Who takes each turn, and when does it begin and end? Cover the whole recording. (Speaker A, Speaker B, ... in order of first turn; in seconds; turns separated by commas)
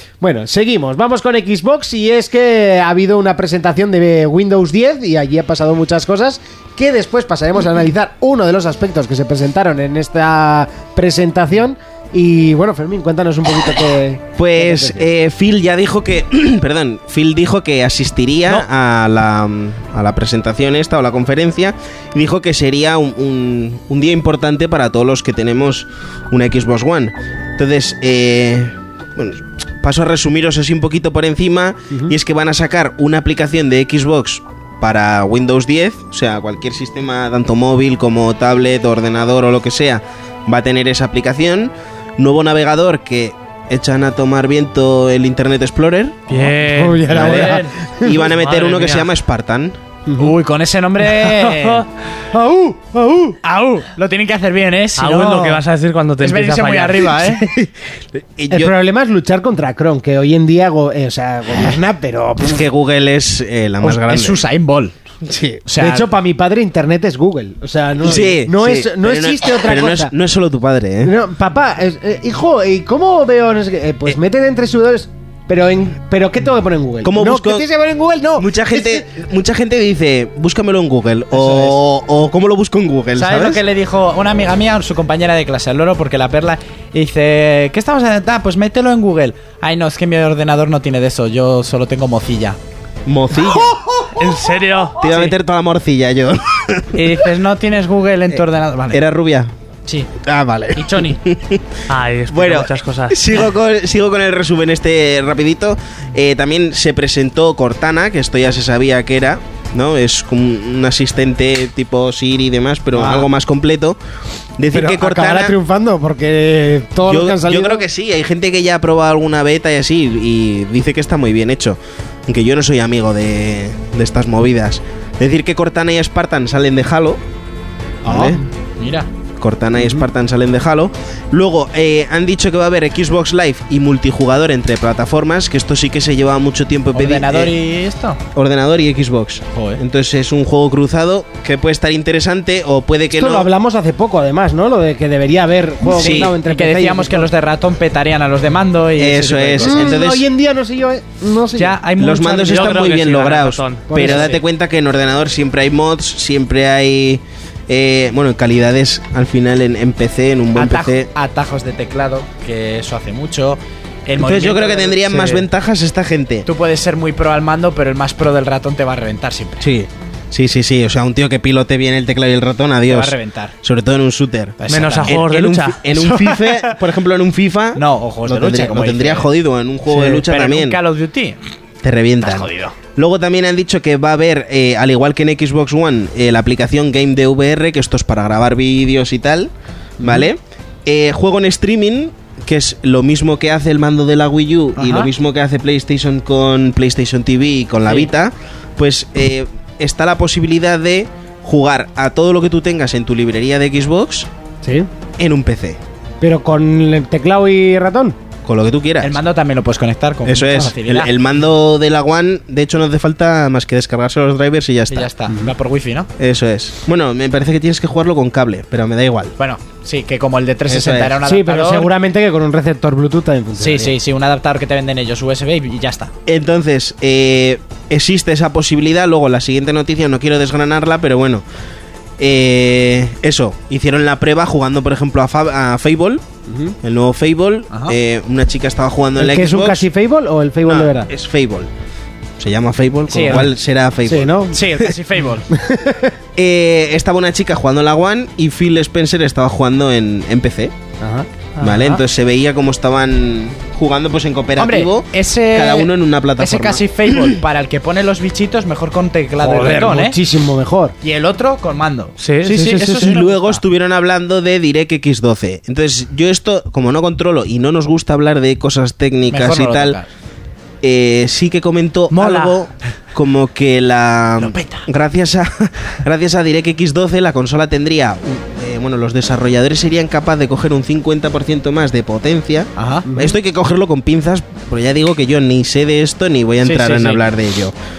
Speaker A: 0.2-15.1, Speaker B: 14.4-46.2, Speaker C: 46.3-47.1, Speaker A: 46.6-48.2, Speaker D: 47.1-47.8, Speaker B: 47.1-49.8, Speaker C: 48.1-49.1, Speaker A: 50.0-50.3, Speaker D: 50.2-51.8, Speaker C: 51.2-51.8, Speaker A: 52.3-53.4, Speaker D: 53.4-55.6, Speaker C: 55.0-57.2, Speaker D: 56.2-57.5, Speaker B: 58.1-58.7, Speaker A: 58.5-62.6, Speaker B: 62.4-64.4, Speaker D: 63.8-64.9, Speaker B: 65.2-65.6, Speaker D: 65.6-66.1, Speaker A: 65.8-70.1, Speaker B: 68.0-71.1, Speaker A: 71.0-79.1, Speaker B: 77.0-77.7, Speaker B: 78.4-83.6, Speaker D: 81.3-81.8, Speaker D: 83.2-92.6, Speaker B: 93.0-93.8, Speaker C: 94.2-95.0, Speaker B: 95.0-97.1, Speaker D: 95.1-95.3, Speaker D: 96.9-99.0, Speaker B: 98.3-99.5, Speaker D: 99.9-100.1, Speaker B: 100.2-101.7, Speaker D: 100.7-101.2, Speaker C: 101.9-103.2, Speaker B: 102.3-114.0, Speaker A: 112.9-113.3, Speaker B: 114.6-115.5, Speaker A: 114.7-117.8, Speaker B: 117.1-127.2, Speaker B: 128.0-128.4, Speaker D: 128.0-129.1, Speaker B: 129.4-137.5, Speaker A: 129.8-130.1, Speaker D: 136.9-138.2, Speaker B: 138.3-143.5, Speaker D: 139.5-139.8, Speaker A: 143.1-147.3, Speaker B: 145.9-146.3, Speaker D: 145.9-149.8, Speaker B: 149.0-150.2, Speaker A: 149.6-151.8, Speaker D: 151.6-152.7, Speaker B: 152.0-161.1, Speaker C: 152.5-153.8, Speaker D: 153.9-154.4, Speaker D: 160.5-165.1, Speaker B: 164.2-166.5, Speaker C: 165.1-165.5, Speaker D: 166.4-169.6, Speaker B: 169.6-180.8, Speaker D: 172.9-173.5, Speaker D: 174.6-175.2, Speaker C: 174.7-175.8, Speaker D: 175.8-176.8, Speaker D: 177.8-179.3, Speaker D: 179.9-181.4, Speaker B: 181.8-189.5, Speaker D: 182.2-182.7, Speaker A: 190.0-190.3, Speaker B: 190.0-204.3, Speaker D: 194.8-195.1, Speaker A: 204.6-204.9, Speaker B: 205.2-205.8, Speaker A: 206.2-208.2, Speaker B: 208.4-209.2, Speaker D: 209.0-211.1, Speaker B: 210.2-215.1, Speaker D: 214.9-216.1, Speaker B: 216.2-219.3, Speaker D: 219.4-221.9, Speaker B: 220.7-221.2, Speaker A: 221.2-223.9, Speaker D: 223.6-226.1, Speaker B: 226.2-231.4, Speaker B: 232.2-236.2, Speaker A: 236.5-236.8, Speaker B: 236.8-239.9, Speaker A: 239.2-241.1, Speaker B: 240.7-241.7, Speaker B: 242.4-244.4, Speaker D: 243.1-243.5, Speaker A: 244.0-244.6, Speaker D: 244.5-245.4, Speaker A: 245.5-246.1, Speaker B: 246.3-250.7, Speaker A: 251.0-251.3, Speaker B: 251.6-257.3, Speaker C: 251.7-252.0, Speaker D: 254.6-260.2, Speaker A: 259.4-260.9, Speaker D: 261.0-263.6, Speaker C: 262.2-262.9, Speaker B: 262.8-270.0, Speaker D: 269.3-270.1, Speaker B: 270.8-287.7, Speaker C: 272.1-272.6, Speaker D: 274.4-274.9, Speaker D: 282.8-283.1, Speaker A: 283.1-283.4, Speaker D: 286.6-287.3